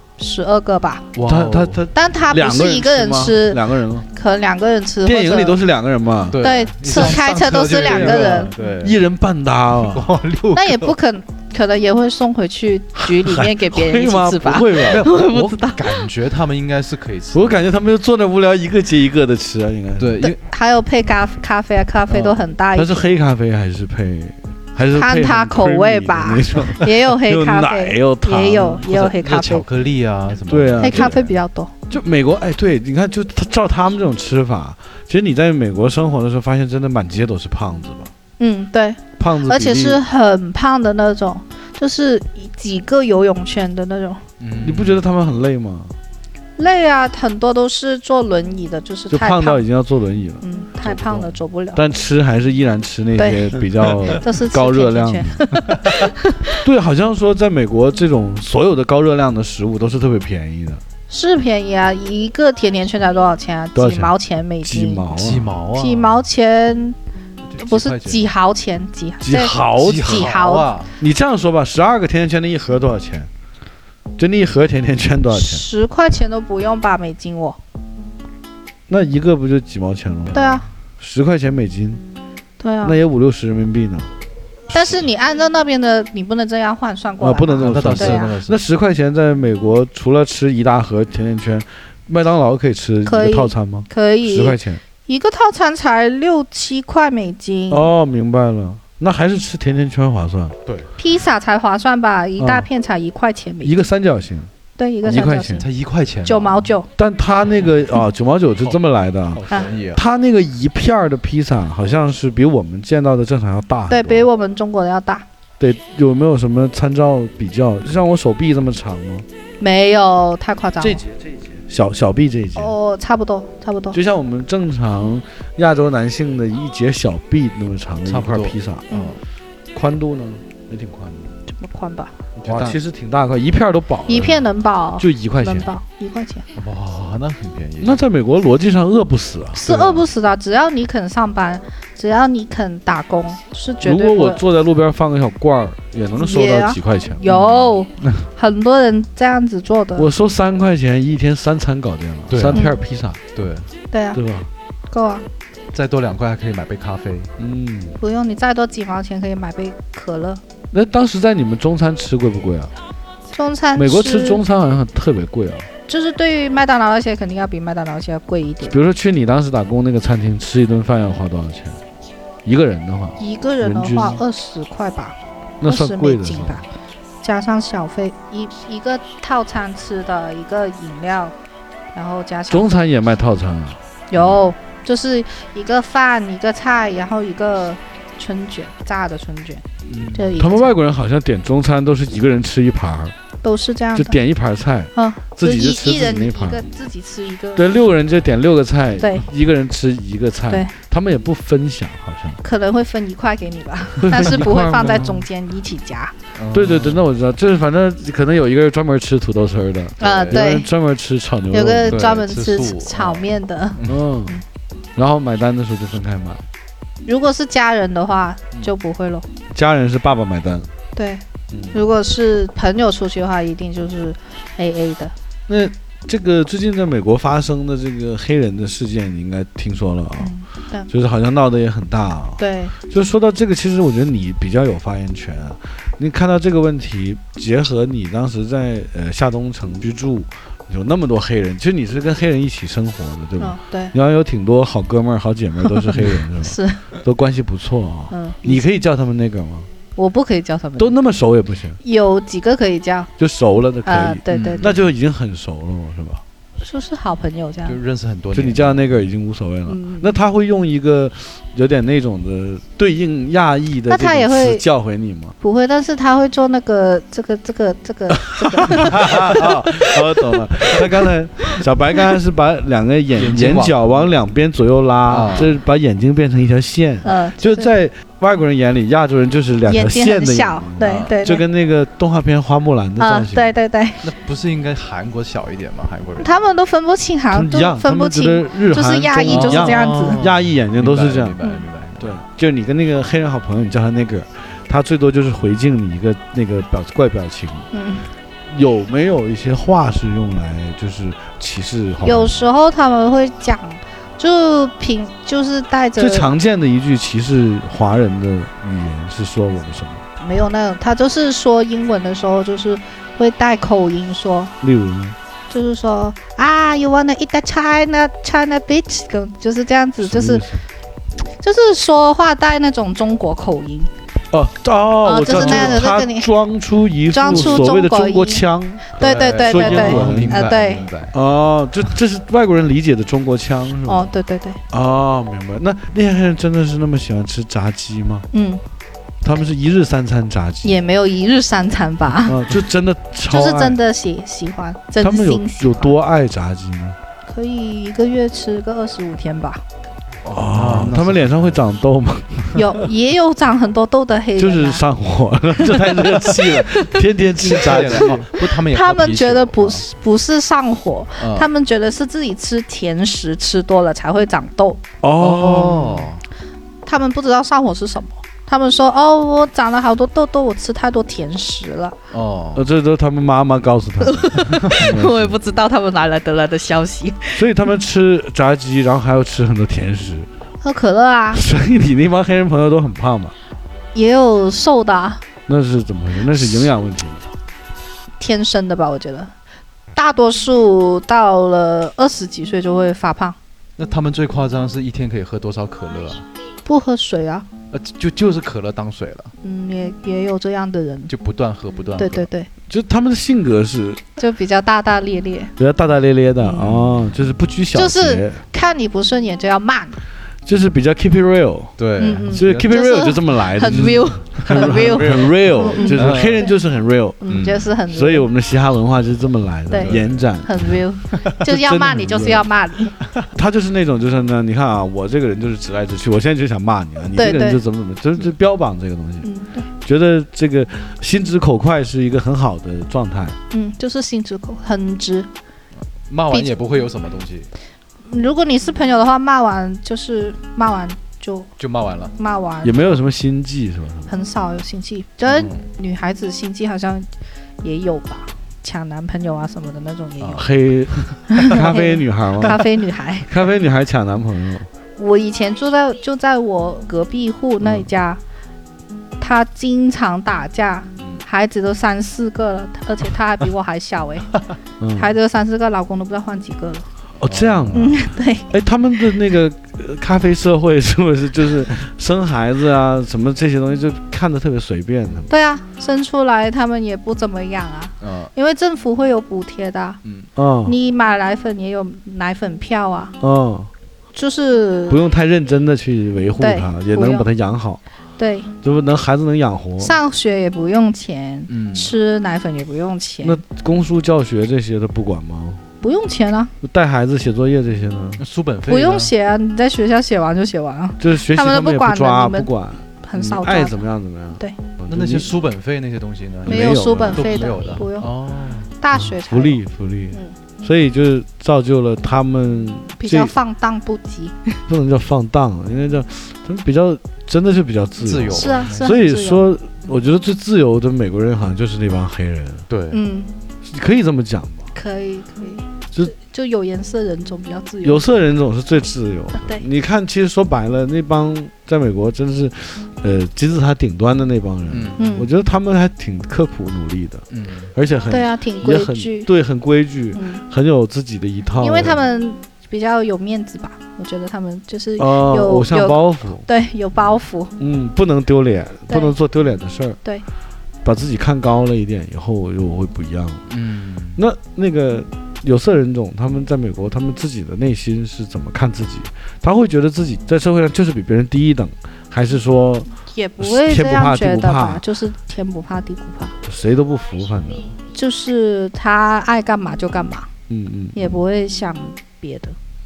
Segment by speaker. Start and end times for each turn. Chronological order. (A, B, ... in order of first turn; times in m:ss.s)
0:00.2-0:01.1 A
0:01.1-0:01.8 B
0:01.2-0:04.1 C
0:01.9-0:05.6 A
0:05.0-0:10.1 C
0:06.3-0:09.0 B
0:06.4-0:08.5 A
0:09.8-0:11.0 B
0:10.5-0:16.1 A
0:13.0-0:15.1 C
0:14.8-0:17.6 B
0:17.3-0:20.2 C
0:20.0-0:20.4 B
0:20.2-0:23.1 A
0:22.1-0:22.4 B
0:22.7-0:28.9 C
0:24.9-0:29.6 A
0:28.8-0:31.3 B
0:30.5-0:31.2 C
0:30.8-0:31.7 A
0:31.9-0:38.1 C
0:38.4-0:44.2 A
0:39.2-0:40.0 C
0:44.4-0:45.0 B
0:44.6-0:45.9 C
0:46.6-0:49.6 A
0:49.1-0:51.0 C
0:50.4-0:51.8 A
0:50.9-0:51.3 B
0:51.7-0:55.5 C
0:53.2-0:56.6 A
0:56.6-1:00.8 C
1:01.1-1:05.1 A
1:03.7-1:05.5 C
1:05.1-1:06.2 B
1:05.7-1:07.0 A
1:07.5-1:08.3 B
1:07.6-1:10.7 A
1:09.2-1:10.4 C
1:09.8-1:10.9 B
1:11.0-1:13.3 C
1:14.2-1:15.6 C
1:15.3-1:17.6 A
1:18.9-1:22.0 C
1:20.3-1:20.6 A
1:22.6-1:23.0 A
1:22.8-1:24.1 C
1:24.7-1:28.3 A
1:27.2-1:34.8 C
1:27.6-1:28.6 B
1:33.0-1:37.9 A
1:37.7-1:40.5 C
1:41.0-1:43.8 A
1:42.4-1:42.7 C
1:43.6-1:44.5 C
1:44.8-1:45.6 A
1:45.0-1:45.7 C
1:45.1-1:46.7 B
1:46.2-1:46.9 A
1:47.0-1:54.2 C
1:49.3-1:50.0 B
1:53.9-1:55.2 A
1:55.6-1:59.2 C
1:59.6-2:01.0 A
2:00.8-2:02.7 C
2:02.6-2:04.0 A
2:03.9-2:08.9 C
2:08.0-2:09.2 B
2:08.9-2:09.2 A
2:09.7-2:11.3 C
2:11.5-2:12.1 A
2:12.4-2:12.8 B
2:12.4-2:15.7 C
2:14.1-2:16.4 A
2:16.5-2:18.0 B
2:17.8-2:20.1 C
2:19.5-2:24.4 A
2:23.8-2:27.3 C
2:26.2-2:30.1 A
2:27.3-2:28.2 B
2:30.0-2:33.2 C
2:32.3-2:32.6 B
2:32.5-2:32.8 A
2:33.3-2:33.7 B
2:33.9-2:34.2 A
2:34.1-2:34.5 C
2:34.9-2:35.2 A
2:35.7-2:37.3 B
2:37.4-2:38.0 C
2:38.0-2:40.4 A
2:40.7-2:42.7 C
2:43.3-2:44.4 A
2:43.8-2:45.7 C
2:45.9-2:48.8 A
2:48.6-2:51.8 C
2:52.4-2:54.2 C
2:53.2-2:56.6 A
2:55.6-2:56.6 C
2:57.2-3:01.3 A
3:01.9-3:02.8 A
3:02.5-3:03.8 C
3:04.1-3:10.8 A
3:09.9-3:10.4 B
3:10.4-3:13.1 C
3:13.4-3:14.2 A
3:13.9-3:16.6 C
3:14.9-3:17.8 A
3:17.6-3:22.4 C
3:19.0-3:19.2 A
3:22.4-3:26.1 A
3:24.0-3:25.2 C
3:26.3-3:27.0 B
3:26.5-3:32.2 C
3:30.0-3:30.4 B
3:30.0-3:30.7 A
3:31.5-3:34.4 A
3:31.9-3:34.0 B
3:33.8-3:34.4 C
3:35.0-3:36.4 C
3:37.0-3:39.3 A
3:39.5-3:40.7 C
3:40.9-3:45.1 A
3:41.5-3:41.8 C
3:45.5-3:50.3 C
3:50.2-3:50.9 A
3:50.9-4:09.7 C
3:52.4-3:52.7 A
4:03.4-4:03.9 A
4:06.4-4:06.8 A
4:08.1-4:08.6 A
4:10.0-4:11.0 A
4:10.8-4:11.8 C
4:11.8-4:13.1 A
4:13.2-4:16.2 C
4:13.8-4:14.7 A
4:14.3-4:14.9 B
4:16.6-4:17.8 A
4:17.6-4:19.1 B
4:18.3-4:25.4 C
4:19.7-4:20.1 A
4:23.9-4:24.6 A
4:25.4-4:29.5 A
4:28.2-4:43.5 C
4:33.2-4:34.1 B
4:35.1-4:35.5 B
4:37.0-4:37.7 A
4:39.6-4:41.4 A
4:40.8-4:41.1 B
4:43.0-4:44.1 A
4:44.0-4:46.3 B
4:46.2-4:50.2 A
4:47.3-4:51.4 C
4:49.2-4:52.2 B
4:52.0-4:57.7 C
4:57.7-4:58.1 A
4:58.5-5:02.5 C
5:02.0-5:06.3 A
5:06.0-5:10.0 C
5:10.2-5:14.5 A
5:14.6-5:15.2 C
5:15.5-5:20.4 A
5:20.0-5:20.6 C
5:21.4-5:23.9 A
5:24.3-5:30.5 C
5:25.0-5:26.3 A
5:25.3-5:25.8 B
5:27.1-5:30.8 A
5:27.2-5:27.6 B
5:29.0-5:31.2 B
5:31.1-5:34.1 C
5:33.9-5:34.6 A
5:34.7-5:38.3 C
5:38.3-5:38.6 A
5:39.2-5:40.8 C
5:40.6-5:42.4 A
5:42.2-5:43.8 C
5:43.3-5:46.0 A
5:45.0-5:47.0 C
5:47.3-5:49.6 A
5:50.2-5:52.6 C
5:50.5-5:51.6 B
5:52.5-5:54.8 A
5:54.4-5:58.3 C
5:55.6-5:57.0 A
5:57.4-5:59.8 B
5:57.5-6:04.8 A
6:01.2-6:01.5 B
6:05.0-6:06.1 C
6:05.2-6:06.2 B
6:06.8-6:12.0 A
6:12.1-6:12.6 B
6:12.5-6:15.4 C
6:14.0-6:17.4 A
6:17.3-6:20.3 C
6:20.6-6:21.4 A
6:21.3-6:23.3 C
6:23.9-6:25.2 A
6:25.5-6:27.3 C
6:28.2-6:29.3 A
6:30.0-6:33.4 A
6:33.8-6:36.2 B
6:36.6-6:37.5 A
6:37.7-6:39.3 B
6:39.4-6:41.1 A
6:41.1-6:42.3 B
6:42.0-6:42.5 A
6:42.7-6:44.0 C
6:44.2-6:45.5 A
6:45.6-6:48.4 C
6:46.4-6:46.9 A
6:47.7-6:50.0 A
6:50.4-6:51.8 C
6:51.8-6:52.7 B
6:52.0-6:56.5 A
6:52.3-6:57.3 C
6:53.7-6:56.4 B
6:57.2-6:58.3 A
6:57.3-6:57.7 B
6:57.9-7:00.8 C
6:59.7-7:02.9 A
6:59.8-7:00.2 B
7:01.4-7:02.5 C
7:03.3-7:09.3 C
7:07.1-7:07.6 A
7:09.2-7:09.7 A
7:09.8-7:13.4 C
7:13.5-7:15.3 A
7:16.1-7:17.5 B
7:18.0-7:21.5 A
7:21.6-7:22.1 B
7:22.2-7:23.0 A
7:22.6-7:24.1 C
7:24.1-7:27.1 A
7:25.2-7:25.6 B
7:27.6-7:30.5 A
7:30.2-7:31.5 B
7:30.3-7:32.6 C
7:31.3-7:33.3 A
7:33.2-7:34.7 C
7:35.0-7:38.2 A
7:39.2-7:44.3 A
7:44.8-7:45.1 C
7:45.0-7:46.9 A
7:47.2-7:55.3 C
7:47.3-7:47.9 B
7:47.7-7:48.5 A
7:55.3-8:00.0 A
7:58.0-7:58.3 B
8:00.0-8:00.3 B
8:00.4-8:00.8 C
8:00.6-8:03.1 A
8:03.2-8:03.7 C
8:04.1-8:05.0 A
8:04.9-8:07.8 C
8:06.4-8:07.3 A
8:08.2-8:08.5 A
8:08.6-8:10.0 C
8:09.8-8:13.4 A
8:11.5-8:11.9 B
8:13.2-8:15.6 C
8:15.8-8:16.5 A
8:16.6-8:18.2 C
8:18.2-8:19.1 B
8:18.7-8:22.5 A
8:21.0-8:25.3 C
8:23.0-8:23.8 A
8:24.9-8:28.7 B
8:26.4-8:27.4 C
8:26.5-8:28.1 A
8:28.8-8:29.6 A
8:28.9-8:33.3 C
8:33.0-8:34.6 A
8:34.7-8:42.6 C
8:38.0-8:39.0 B
8:38.3-8:39.5 A
8:42.7-8:43.0 B
8:42.9-8:43.3 A
8:43.6-8:44.7 C
8:44.7-8:48.1 A
8:47.8-8:57.2 C
8:49.3-8:49.6 A
8:54.7-8:55.0 B
8:55.0-8:55.3 A
8:57.3-8:57.7 B
8:57.8-9:02.0 C
8:58.1-8:59.3 A
9:00.1-9:00.4 A
9:01.6-9:07.5 A
9:05.0-9:06.5 C
9:07.6-9:10.0 C
9:08.9-9:09.1 A
9:10.8-9:13.4 C
9:13.5-9:14.2 B
9:14.2-9:24.8 C
9:23.1-9:26.4 A
9:26.4-9:27.7 C
9:27.9-9:30.3 A
9:30.5-9:31.2 C
9:30.9-9:32.6 A